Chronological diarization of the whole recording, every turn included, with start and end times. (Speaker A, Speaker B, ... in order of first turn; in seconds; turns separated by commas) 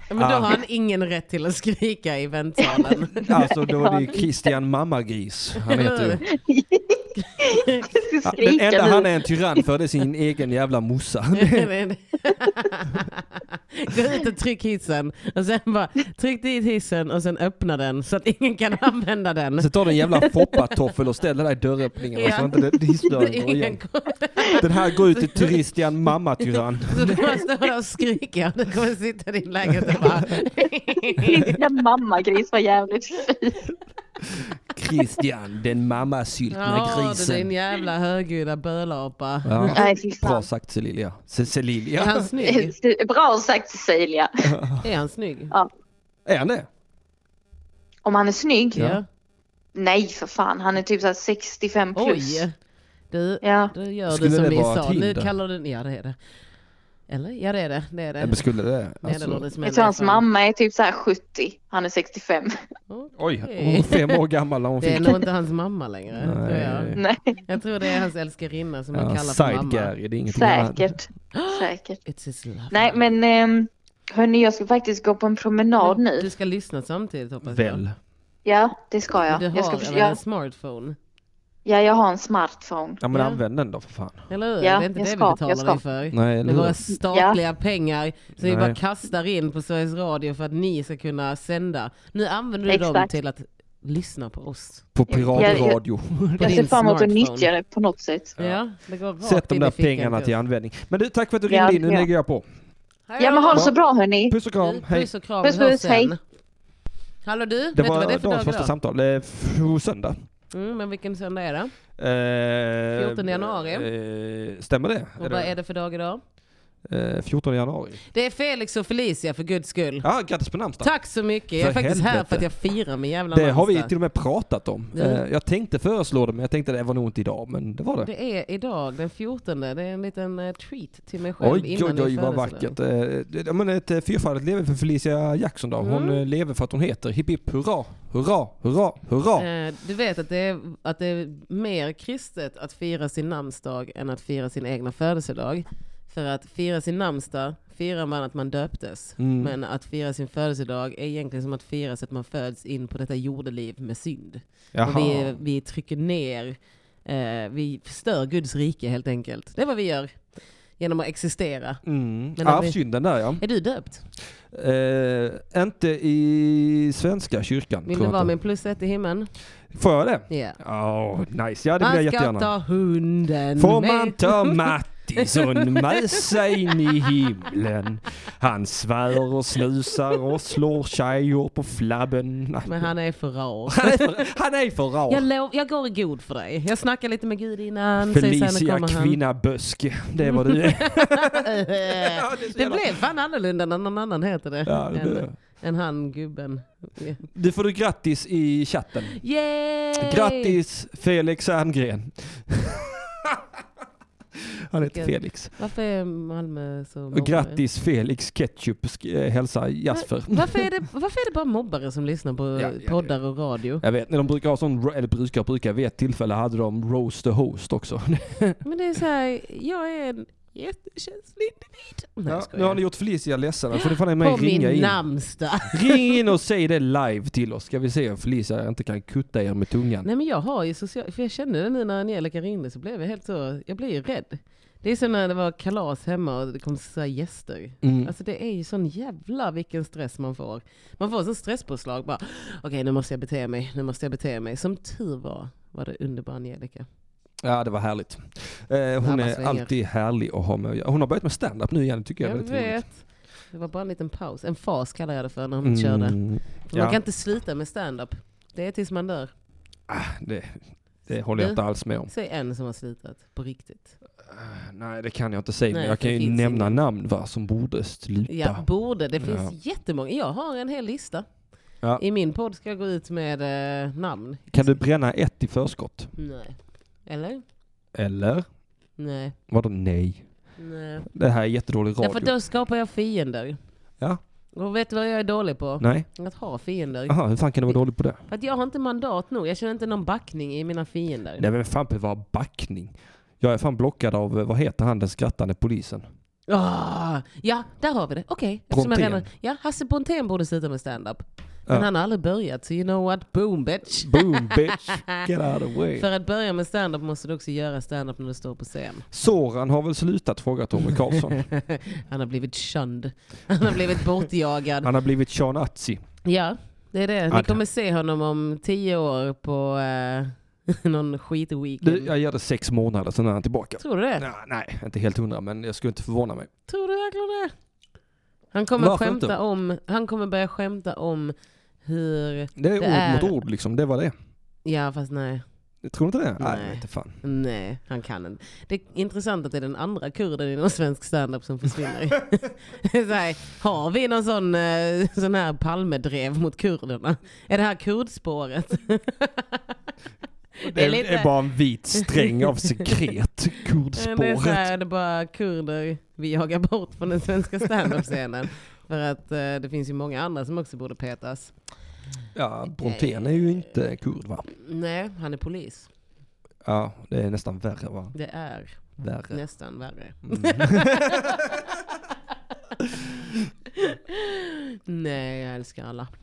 Speaker A: 0.1-3.3, Speaker B: 0.1-0.6, Speaker B: 3.1-6.2, Speaker C: 3.5-4.2, Speaker A: 5.6-6.2, Speaker C: 6.3-9.6, Speaker A: 7.2-7.9, Speaker B: 8.2-11.7, Speaker A: 11.3-20.8, Speaker B: 19.6-23.8, Speaker A: 22.1-25.6, Speaker B: 24.6-27.3, Speaker A: 26.9-31.6, Speaker C: 31.2-33.7, Speaker B: 34.3-37.5, Speaker A: 36.5-39.8, Speaker B: 39.5-42.3, Speaker C: 39.7-40.5, Speaker A: 42.0-42.7, Speaker C: 42.4-44.3, Speaker B: 44.5-44.9, Speaker A: 44.8-45.5, Speaker B: 46.3-46.7, Speaker C: 48.0-48.9, Speaker A: 48.8-49.0, Speaker C: 49.8-52.5, Speaker A: 52.0-52.5, Speaker A: 53.1-56.2, Speaker C: 53.4-53.7, Speaker B: 54.1-55.3, Speaker A: 57.1-58.4, Speaker B: 58.2-59.5, Speaker A: 59.0-60.2, Speaker C: 59.6-62.5, Speaker A: 62.9-64.2, Speaker B: 63.2-65.2, Speaker A: 64.8-67.0, Speaker B: 66.1-67.0, Speaker C: 67.0-67.4, Speaker A: 67.5-69.9, Speaker B: 68.9-70.9, Speaker C: 70.3-72.0, Speaker A: 71.3-73.0, Speaker C: 72.7-76.3, Speaker A: 75.8-77.8, Speaker B: 77.4-78.0, Speaker C: 78.5-80.2, Speaker A: 79.3-81.0, Speaker C: 81.7-83.0, Speaker B: 83.0-84.2, Speaker A: 83.1-83.4, Speaker A: 84.3-95.6, Speaker C: 84.6-85.8, Speaker B: 86.1-86.8, Speaker C: 87.0-87.4, Speaker B: 88.4-88.8, Speaker C: 92.7-93.1, Speaker B: 95.0-96.7, Speaker C: 95.1-95.8, Speaker C: 96.4-98.3, Speaker A: 96.4-97.5, Speaker A: 98.4-100.3, Speaker B: 99.2-102.5, Speaker C: 101.5-102.1, Speaker A: 103.1-103.7, Speaker C: 103.2-104.3, Speaker B: 104.3-105.1, Speaker A: 104.6-106.2, Speaker C: 105.4-106.1, Speaker A: 107.2-108.7, Speaker B: 107.7-110.2, Speaker A: 110.5-111.7, Speaker B: 112.0-115.5, Speaker A: 113.0-113.9, Speaker A: 115.2-116.2, Speaker B: 116.9-118.0, Speaker A: 118.1-120.1, Speaker B: 120.0-120.9, Speaker A: 120.8-123.9, Speaker B: 121.6-122.5, Speaker B: 123.3-128.1, Speaker A: 125.0-125.2, Speaker A: 128.0-132.8, Speaker B: 131.4-139.5, Speaker A: 135.8-136.2, Speaker A: 139.4-160.3, Speaker B: 149.2-149.5, Speaker B: 154.7-155.4, Speaker A: 160.8-161.8, Speaker B: 161.9-163.4, Speaker A: 162.4-162.8, Speaker A: 163.4-164.0, Speaker B: 164.5-168.3, Speaker A: 167.9-169.3, Speaker B: 169.7-172.5, Speaker A: 170.3-170.6, Speaker A: 171.8-174.7, Speaker B: 173.6-182.9, Speaker A: 175.2-176.3, Speaker A: 182.7-184.2, Speaker B: 183.7-185.2, Speaker A: 185.1-189.2, Speaker B: 188.0-192.9, Speaker A: 190.3-197.2, Speaker B: 194.7-195.3, Speaker B: 197.3-199.2, Speaker A: 199.2-200.6, Speaker B: 200.0-203.4, Speaker B: 204.7-205.5, Speaker A: 204.8-207.6, Speaker B: 207.1-210.7, Speaker A: 209.9-213.8, Speaker B: 212.6-213.1, Speaker B: 213.8-218.6, Speaker A: 218.7-222.8, Speaker B: 222.3-225.0, Speaker A: 223.7-226.2, Speaker B: 225.7-230.1, Speaker A: 230.1-246.9, Speaker B: 237.8-238.1, Speaker B: 247.4-252.8, Speaker A: 249.0-249.7, Speaker A: 252.2-259.3, Speaker B: 255.6-257.0, Speaker B: 259.9-262.1, Speaker A: 261.4-263.9, Speaker B: 264.3-268.6, Speaker A: 265.7-266.8, Speaker A: 268.3-271.3, Speaker B: 269.2-269.5, Speaker A: 272.0-274.8, Speaker B: 274.5-276.1, Speaker A: 276.2-276.6, Speaker A: 277.1-277.4, Speaker B: 277.9-278.5, Speaker A: 279.0-279.4, Speaker B: 279.5-280.3, Speaker A: 280.6-281.1, Speaker B: 281.1-282.3, Speaker A: 282.0-283.6, Speaker A: 284.6-291.5, Speaker B: 285.8-286.1, Speaker B: 287.1-288.2, Speaker B: 291.4-296.1, Speaker A: 296.5-305.2, Speaker B: 298.7-299.3, Speaker B: 303.9-306.1, Speaker A: 306.0-309.1, Speaker B: 309.1-311.4, Speaker A: 310.9-314.9, Speaker B: 314.8-316.0, Speaker A: 316.2-322.1, Speaker B: 317.3-317.6, Speaker B: 321.8-326.5, Speaker A: 323.8-324.2, Speaker A: 326.7-327.5, Speaker A: 328.5-333.4, Speaker B: 328.8-329.4, Speaker B: 332.6-334.1, Speaker A: 334.6-335.4, Speaker B: 335.9-337.2, Speaker A: 336.4-349.7, Speaker A: 350.6-351.3, Speaker B: 350.6-354.7, Speaker A: 352.0-352.9, Speaker A: 354.0-361.5, Speaker B: 362.4-364.5, Speaker A: 362.8-363.7, Speaker A: 364.6-365.9, Speaker B: 366.6-368.1, Speaker A: 368.1-368.8, Speaker B: 369.0-369.4, Speaker A: 369.3-371.6, Speaker B: 370.3-371.6, Speaker A: 373.7-376.1